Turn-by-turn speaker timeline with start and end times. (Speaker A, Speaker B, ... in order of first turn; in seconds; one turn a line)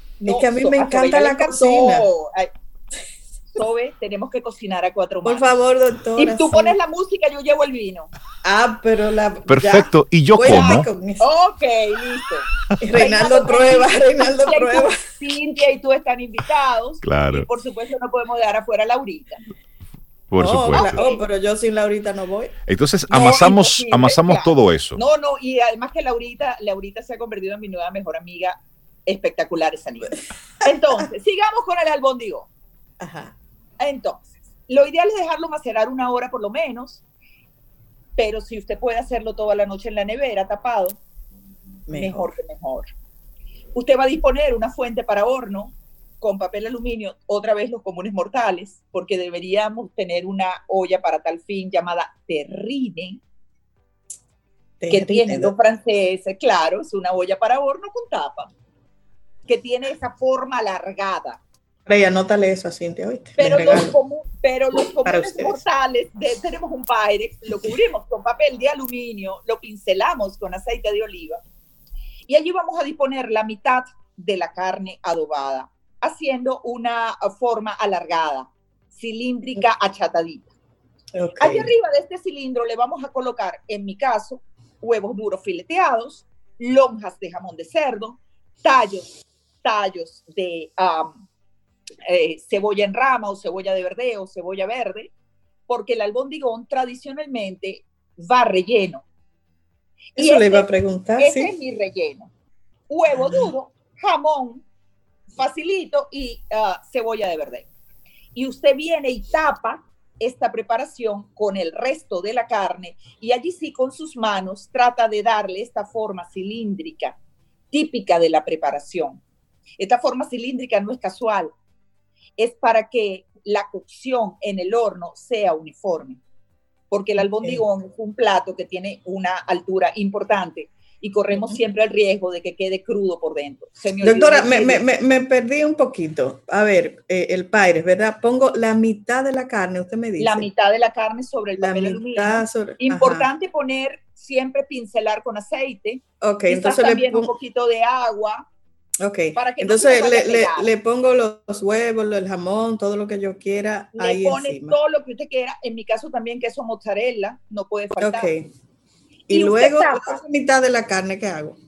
Speaker A: 0.2-2.5
Speaker B: 0.2-2.1
Speaker A: 3.5-5.5
Speaker B: 5.2-6.8
Speaker A: 6.2-8.1
Speaker B: 8.4-11.3
Speaker C: 9.5-10.9
Speaker A: 10.4-19.4
Speaker B: 12.8-15.1
Speaker C: 17.0-17.5
Speaker C: 20.3-21.0
Speaker B: 20.4-22.5
Speaker A: 20.7-21.2
Speaker C: 22.7-25.0
Speaker A: 23.1-32.5
Speaker B: 33.0-33.4
Speaker A: 33.8-37.0
Speaker A: 38.1-41.0
Speaker B: 41.9-42.3
Speaker A: 41.9-42.9
Speaker A: 43.7-53.2
Speaker B: 54.8-55.5
Speaker A: 54.9-58.5
Speaker A: 59.5-61.4
Speaker B: 61.9-63.9
Speaker A: 63.4-71.4
Speaker B: 65.0-65.6
Speaker A: 72.3-80.5
Speaker B: 81.1-81.7
Speaker A: 81.4-91.2
Speaker A: 92.0-95.1
Speaker A: 95.7-99.0
Speaker A: 100.1-102.3
Speaker B: 100.2-101.5
Speaker A: 102.9-104.6
Speaker B: 103.1-103.5
Speaker A: 105.3-107.7
Speaker A: 108.3-117.2
Speaker A: 117.7-119.2
Speaker A: 119.8-121.5
Speaker A: 122.4-126.2
Speaker A: 126.9-134.8
Speaker B: 127.4-127.6
Speaker B: 131.3-131.6
Speaker B: 134.0-140.5
Speaker A: 140.2-148.4
Speaker B: 141.6-143.3
Speaker B: 146.2-147.3
Speaker B: 149.0-154.8
Speaker A: 149.3-150.7
Speaker A: 153.9-158.3
Speaker B: 158.0-158.5
Speaker B: 159.3-161.6
Speaker A: 159.3-160.2